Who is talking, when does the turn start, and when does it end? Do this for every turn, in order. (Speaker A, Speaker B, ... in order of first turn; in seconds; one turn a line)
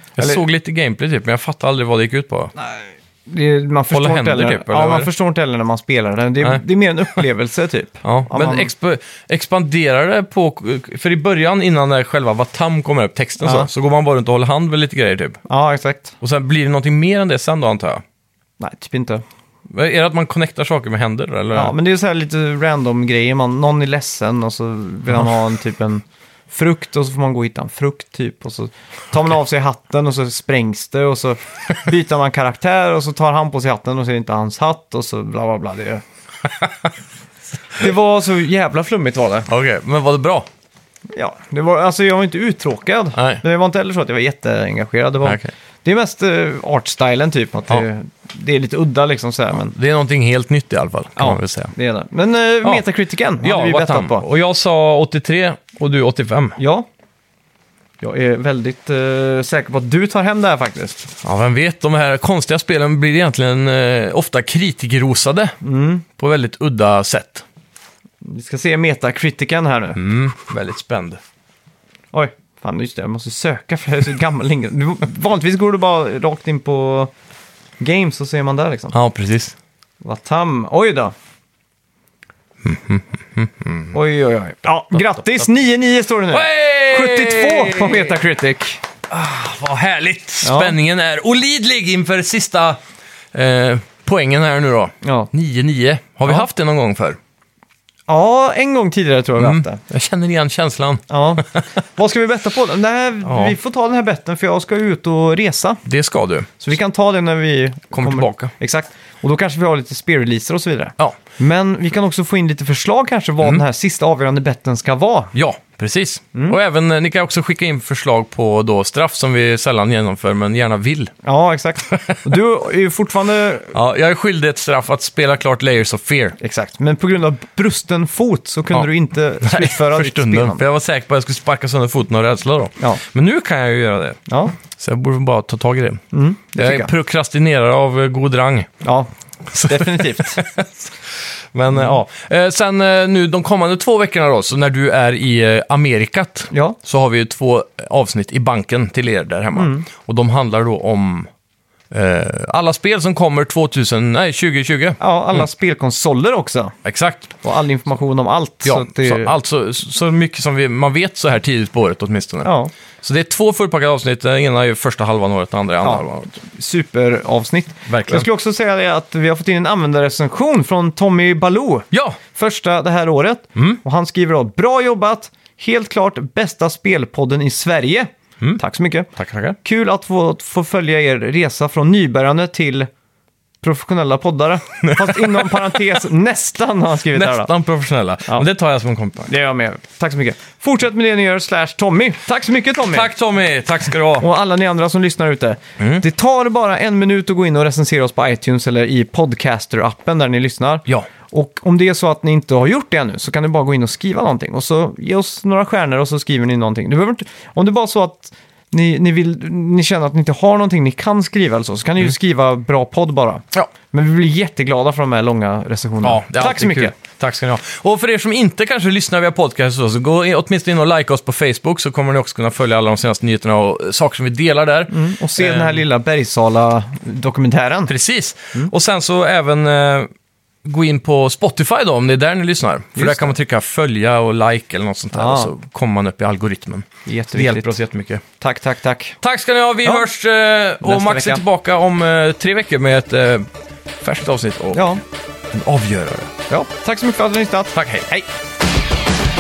Speaker A: 0.2-2.5
Speaker B: 2.6-8.7
Speaker A: 3.9-5.1
Speaker A: 8.0-15.4
Speaker B: 13.4-13.7
Speaker B: 15.5-16.2
Speaker A: 16.2-18.0
Speaker B: 18.6-19.2
Speaker A: 19.7-21.7
Speaker B: 21.5-36.0
Speaker B: 37.7-39.5
Speaker A: 39.5-40.5
Speaker B: 41.1-49.7
Speaker A: 43.2-43.4
Speaker A: 45.2-45.5
Speaker A: 49.6-51.7
Speaker B: 51.2-54.2
Speaker A: 53.4-56.6
Speaker B: 56.6-56.9
Speaker B: 58.0-61.1
Speaker A: 61.2-65.6
Speaker B: 65.6-66.0
Speaker A: 66.2-67.5
Speaker B: 68.2-70.0
Speaker A: 70.0-71.2
Speaker B: 72.1-77.1
Speaker B: 77.8-79.0
Speaker A: 78.9-79.5
Speaker B: 80.0-81.1
Speaker A: 82.6-84.0
Speaker B: 83.9-88.8
Speaker A: 86.3-88.2
Speaker A: 89.1-92.8
Speaker B: 90.4-90.8
Speaker A: 93.3-97.2
Speaker B: 95.0-95.3
Speaker B: 98.1-99.8
Speaker A: 99.4-101.7
Speaker B: 101.1-105.8
Speaker A: 103.2-103.5
Speaker A: 105.8-106.6
Speaker B: 106.6-115.3
Speaker A: 107.9-108.5
Speaker A: 115.3-121.1
Speaker B: 116.3-116.6
Speaker B: 121.2-123.7
Speaker A: 121.9-122.2
Speaker A: 123.7-126.4
Speaker B: 126.4-130.6
Speaker A: 129.4-134.2
Speaker B: 134.3-134.6
Speaker A: 134.7-136.0
Speaker B: 136.1-136.9
Speaker A: 136.6-138.7
Speaker B: 138.8-140.5
Speaker A: 139.5-151.3
Speaker B: 146.5-146.8
Speaker B: 149.6-149.9
Speaker A: 151.9-155.4
Speaker B: 155.0-156.8
Speaker A: 156.8-157.3
Speaker B: 157.4-159.3
Speaker A: 158.6-162.5
Speaker B: 162.4-162.7
Speaker A: 163.0-166.3
Speaker B: 165.8-182.9
Speaker A: 167.9-168.3
Speaker A: 171.9-172.2
Speaker A: 179.2-179.6
Speaker B: 183.6-187.5
Speaker A: 184.8-185.8
Speaker A: 187.1-189.3
Speaker B: 189.3-193.1
Speaker A: 192.9-194.3
Speaker B: 194.2-216.9
Speaker A: 216.0-225.8
Speaker B: 224.9-227.9
Speaker A: 227.9-230.1
Speaker A: 230.6-238.2
Speaker B: 232.9-233.3
Speaker B: 235.1-235.5
Speaker B: 237.1-237.8
Speaker B: 238.4-239.2
Speaker A: 239.2-243.5
Speaker B: 239.8-240.1
Speaker B: 240.8-241.4
Speaker A: 244.0-244.9
Speaker B: 244.7-245.0
Speaker A: 245.5-246.3
Speaker B: 246.5-248.3
Speaker A: 247.7-248.1